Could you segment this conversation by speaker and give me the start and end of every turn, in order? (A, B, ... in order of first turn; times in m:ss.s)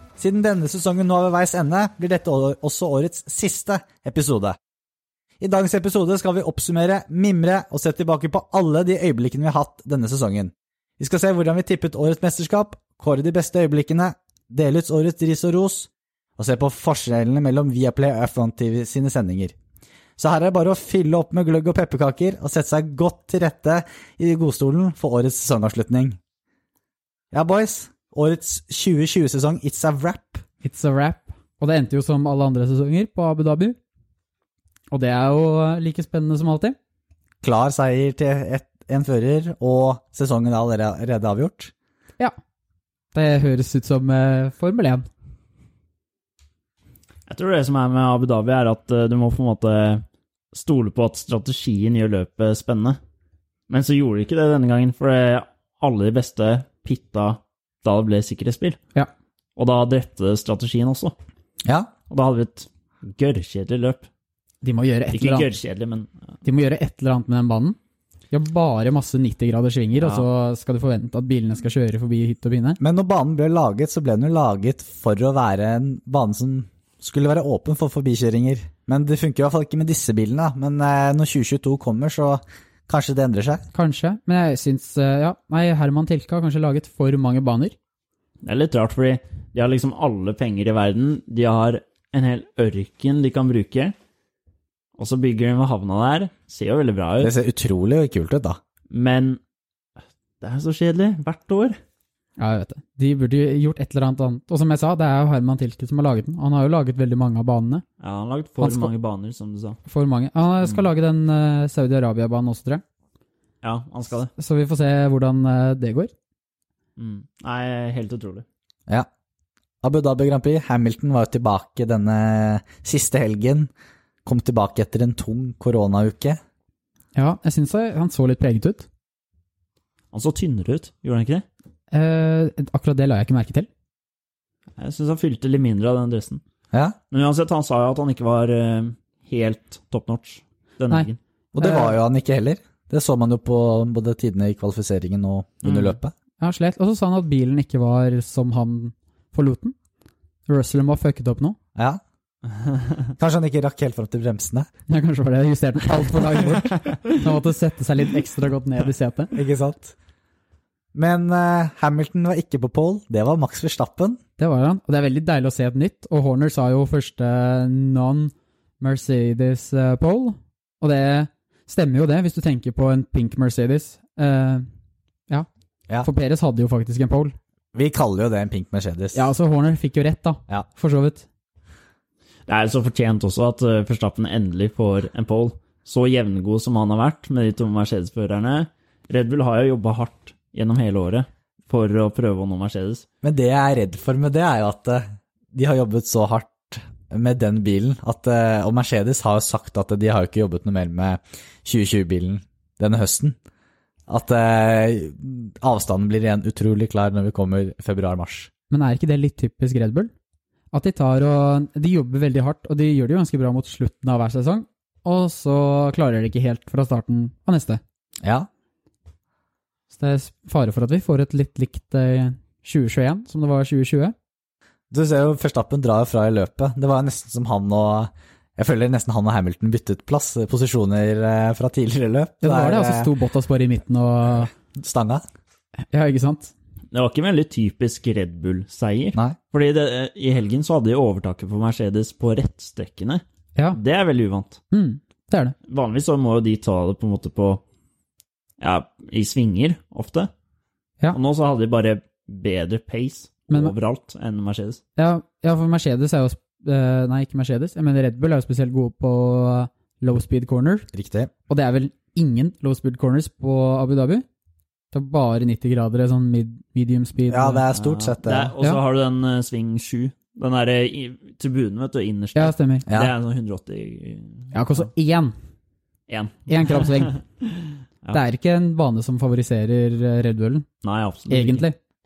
0:00.2-0:04.6 A
0:05.4-0:19.6 A
0:20.2-0:26.2 A
0:27.3-0:30.4 A
0:30.6-0:33.8 B
0:34.9-0:36.8 B
0:37.4-0:41.7 A
0:43.1-0:45.1 B
0:47.3-0:53.0 C
0:53.7-0:58.8 C
0:59.6-1:01.1 C
1:01.6-1:01.9 A
1:02.1-1:04.1 C
1:04.6-1:05.5 B
1:05.1-1:06.1 C
1:06.4-1:07.8 B
1:08.3-1:12.8 B
1:10.0-1:10.3 C
1:12.8-1:23.6 A
1:23.7-1:27.8 B
1:28.4-1:33.9 C
1:35.0-1:37.3 C
1:37.2-1:38.6 A
1:38.9-1:39.4 C
1:40.4-1:41.8 C
1:42.4-1:47.8 B
1:48.0-1:49.8 C
1:48.6-1:48.9 B
1:49.8-1:52.8 B
1:53.6-1:54.3 C
1:54.4-1:56.1 B
1:57.0-1:58.4 C
1:59.8-2:03.7 A
2:04.2-2:06.4 A
2:07.1-2:08.9 B
2:10.1-2:11.4 C
2:11.9-2:13.7 B
2:14.8-2:16.4 C
2:16.7-2:17.0 A
2:17.1-2:21.2 C
2:21.5-2:26.1 A
2:21.6-2:22.0 B
2:25.6-2:26.0 C
2:26.4-2:29.7 B
2:30.5-2:31.6 B
2:31.8-2:32.0 A
2:33.2-2:34.7 A
2:34.9-2:39.3 B
2:39.3-2:39.9 A
2:40.9-2:44.2 A
2:44.4-2:54.6 B
2:56.0-2:57.3 B
2:57.7-2:59.2 A
2:59.1-3:01.2 B
3:02.5-3:13.0 C
3:13.2-3:23.4 A
3:24.1-3:28.5 A
3:28.7-3:30.1 B
3:30.7-3:37.8 B
3:38.2-3:38.5 A
3:39.9-3:44.1 B
3:44.9-3:53.1 A
3:52.4-3:54.5 B
3:54.7-3:55.2 A
3:55.9-3:56.5 B
3:56.9-4:03.2 C
4:03.7-4:04.6 C
4:04.7-4:05.5 B
4:05.7-4:07.6 C
4:08.6-4:10.3 C
4:11.1-4:14.8 C
4:15.0-4:20.9 B
4:20.9-4:21.3 A
4:21.5-4:24.2 B
4:24.9-4:27.6 B
4:27.3-4:28.5 A
4:27.7-4:34.8 C
4:32.3-4:32.8 B
4:32.9-4:33.1 A
4:34.5-4:35.3 B
4:36.1-4:38.2 C
4:36.5-4:37.2 B
4:38.1-4:40.6 B
4:40.8-4:41.6 C
4:41.3-4:41.8 B